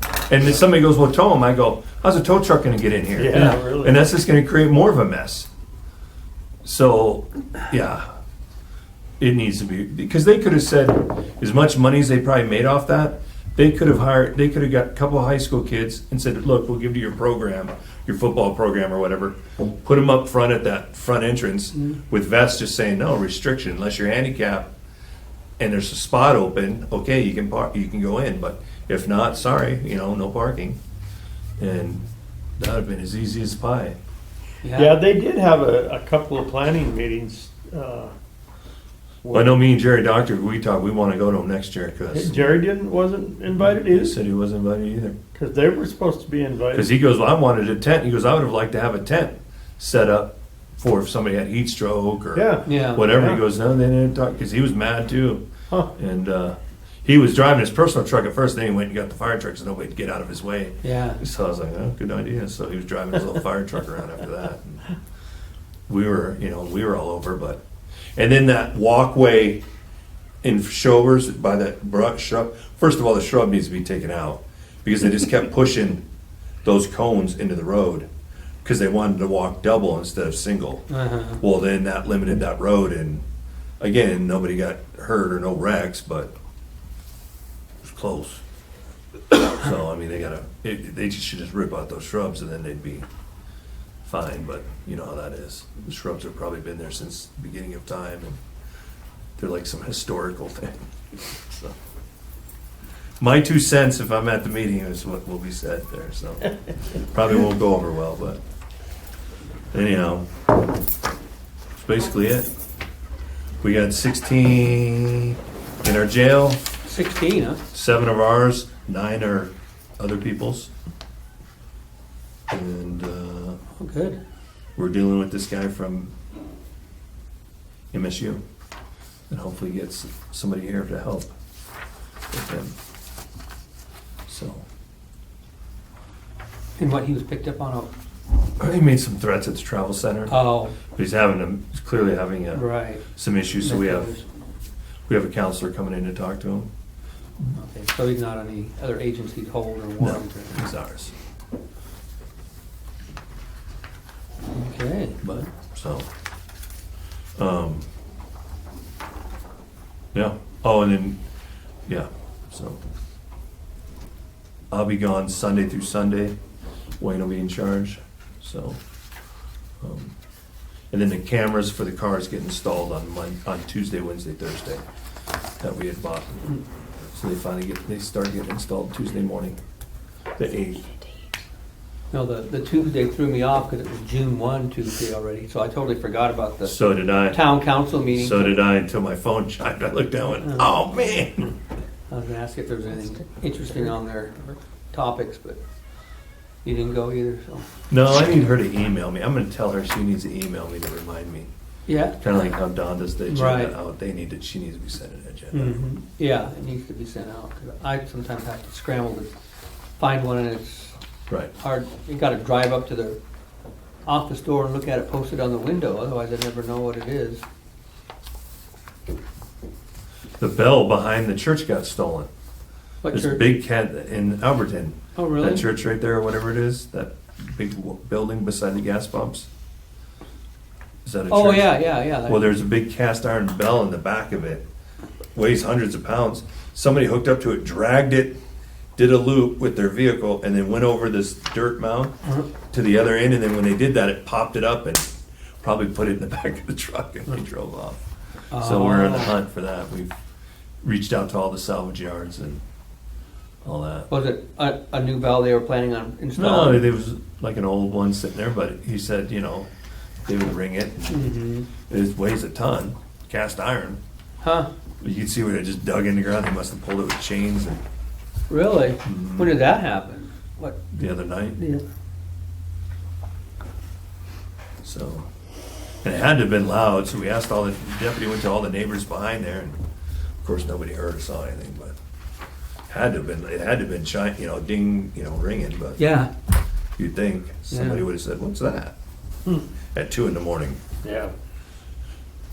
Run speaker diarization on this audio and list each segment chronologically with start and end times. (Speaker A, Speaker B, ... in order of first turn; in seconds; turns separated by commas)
Speaker A: 0.3-5.5, Speaker B: 3.2-4.0, Speaker A: 6.6-8.1, Speaker A: 9.2-24.7, Speaker A: 25.6-30.8, Speaker A: 31.6-32.0, Speaker A: 32.6-34.0, Speaker C: 34.6-35.0, Speaker B: 34.8-38.1, Speaker B: 39.2-39.5, Speaker A: 39.3-42.6, Speaker B: 42.1-44.2, Speaker A: 43.6-45.2, Speaker B: 45.4-46.9, Speaker A: 46.8-55.4, Speaker B: 52.3-53.4, Speaker C: 52.7-53.1, Speaker A: 56.0-64.9, Speaker C: 60.8-61.2, Speaker A: 65.9-67.6, Speaker A: 68.2-69.6, Speaker A: 70.4-76.0, Speaker A: 76.6-78.1, Speaker A: 78.6-83.2, Speaker C: 80.9-81.4, Speaker A: 83.8-86.3, Speaker A: 87.8-88.4, Speaker A: 89.3-93.1, Speaker A: 94.0-98.4, Speaker A: 99.4-101.8, Speaker A: 103.2-108.4, Speaker A: 109.7-110.3, Speaker A: 111.8-112.5, Speaker A: 113.6-116.6, Speaker C: 116.8-117.6, Speaker A: 117.7-120.7, Speaker A: 122.5-123.6, Speaker C: 123.8-124.2, Speaker A: 124.8-126.1, Speaker A: 127.9-128.4, Speaker A: 129.3-131.3, Speaker A: 132.3-132.8, Speaker A: 134.3-134.7, Speaker C: 136.8-137.9, Speaker A: 138.6-144.1, Speaker C: 140.3-140.8, Speaker C: 142.5-144.3, Speaker A: 145.1-146.7, Speaker C: 147.5-150.6, Speaker A: 150.0-151.1, Speaker C: 154.5-155.5, Speaker A: 155.2-156.1, Speaker A: 157.4-157.9, Speaker A: 160.1-161.2, Speaker A: 161.9-162.8, Speaker A: 164.7-166.4, Speaker A: 167.0-168.8, Speaker A: 169.8-170.1, Speaker A: 170.9-174.8, Speaker A: 175.6-176.6, Speaker A: 177.1-179.6, Speaker A: 180.4-181.1, Speaker C: 182.1-188.6, Speaker A: 186.7-187.5, Speaker A: 188.0-191.5, Speaker C: 190.4-190.7, Speaker C: 192.1-195.6, Speaker C: 196.7-197.7, Speaker A: 197.9-201.5, Speaker C: 201.9-202.6, Speaker A: 202.2-205.8, Speaker C: 203.2-203.7, Speaker C: 205.5-209.3, Speaker C: 210.0-211.0, Speaker C: 211.6-213.2, Speaker C: 214.1-217.4, Speaker A: 220.4-222.3, Speaker C: 223.0-223.5, Speaker A: 223.1-229.5, Speaker C: 225.2-225.7, Speaker A: 231.1-234.7, Speaker C: 231.3-232.5, Speaker A: 235.3-238.4, Speaker A: 239.0-242.1, Speaker A: 242.7-248.0, Speaker C: 248.5-249.3, Speaker A: 248.5-250.2, Speaker A: 250.8-252.6, Speaker A: 253.6-254.1, Speaker C: 254.1-256.9, Speaker A: 256.4-259.7, Speaker A: 260.3-261.1, Speaker C: 261.1-261.7, Speaker A: 261.9-264.0, Speaker C: 264.4-264.7, Speaker A: 265.0-267.8, Speaker C: 268.5-270.9, Speaker A: 269.1-269.6, Speaker A: 270.9-271.6, Speaker C: 271.6-271.8, Speaker A: 274.8-275.3, Speaker A: 276.0-279.8, Speaker A: 280.4-281.9, Speaker A: 282.9-286.0, Speaker C: 286.0-286.3, Speaker A: 287.0-288.9, Speaker C: 287.7-288.1, Speaker A: 289.9-290.8, Speaker B: 291.0-291.3